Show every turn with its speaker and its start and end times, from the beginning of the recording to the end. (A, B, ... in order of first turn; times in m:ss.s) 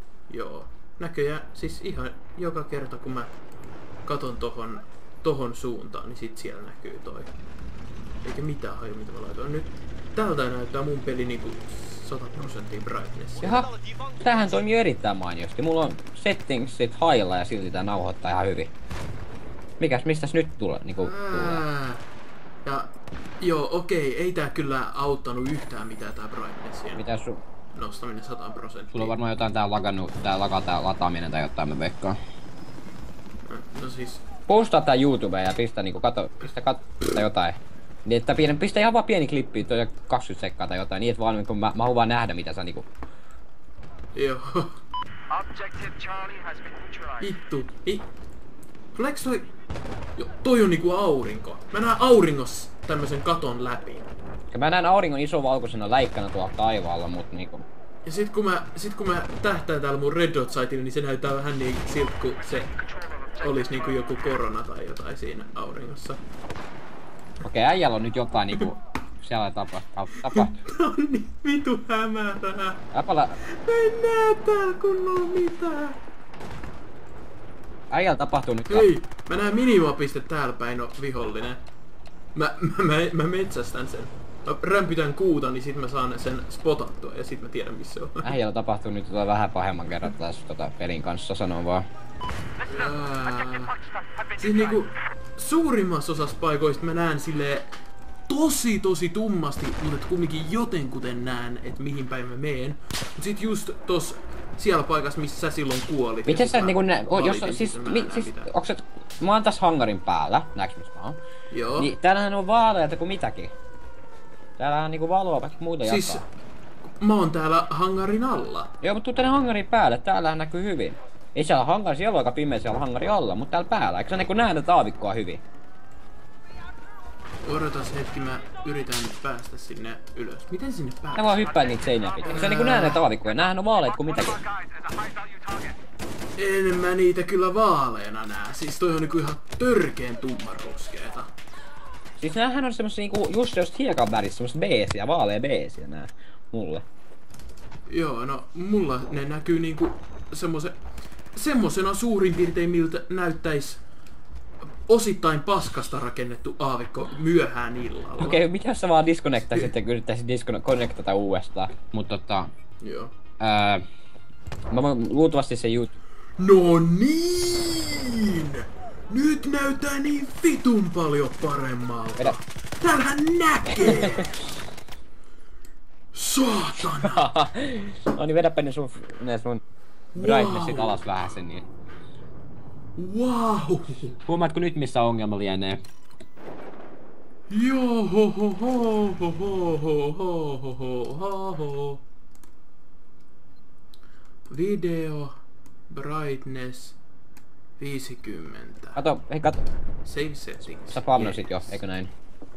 0:00.3-0:03.3 A
0:04.0-0:07.3 A
0:08.2-0:13.6 A
0:13.4-0:18.7 B
0:19.8-0:21.6 B
0:21.0-0:22.0 A
0:22.6-0:27.0 A
0:27.0-0:27.4 B
0:27.7-0:29.1 A
0:28.9-0:32.2 B
0:33.4-0:34.2 A
0:34.5-0:42.9 B
0:44.1-0:44.8 A
0:45.4-0:46.9 C
0:47.2-0:48.1 A
0:48.9-0:49.5 A
0:50.2-0:54.1 A
0:54.5-0:57.6 B
0:58.0-1:02.7 A
1:03.3-1:06.2 A
1:07.4-1:10.5 B
1:10.2-1:12.8 A
1:12.9-1:13.4 B
1:13.4-1:16.0 A
1:17.9-1:18.9 B
1:18.7-1:21.6 A
1:22.3-1:28.3 A
1:28.2-1:31.8 B
1:32.6-1:33.8 A
1:34.3-1:37.8 A
1:38.3-1:48.5 A
1:46.3-1:51.2 B
1:51.5-1:51.9 A
1:51.8-1:53.5 B
1:54.6-1:56.2 B
1:55.8-1:56.3 A
1:57.0-1:58.7 A
1:58.8-2:05.4 B
2:07.4-2:11.5 A
2:11.2-2:14.4 B
2:12.2-2:13.0 A
2:14.7-2:15.6 C
2:16.4-2:21.3 A
2:22.2-2:26.8 B
2:27.9-2:30.8 A
2:31.3-2:33.8 A
2:34.9-2:38.4 A
2:38.2-2:42.5 B
2:39.4-2:39.7 A
2:42.8-2:43.1 A
2:43.4-2:43.8 B
2:44.7-2:45.9 B
2:46.4-2:54.4 A
2:53.9-2:54.2 B
2:56.1-2:57.3 A
2:57.0-2:59.6 B
3:00.1-3:01.0 A
3:00.2-3:01.6 B
3:03.0-3:04.1 A
3:04.2-3:05.8 B
3:07.5-3:12.0 A
3:14.5-3:15.4 A
3:15.9-3:17.0 A
3:17.8-3:19.0 A
3:19.0-3:19.6 B
3:20.0-3:21.8 A
3:20.9-3:22.1 B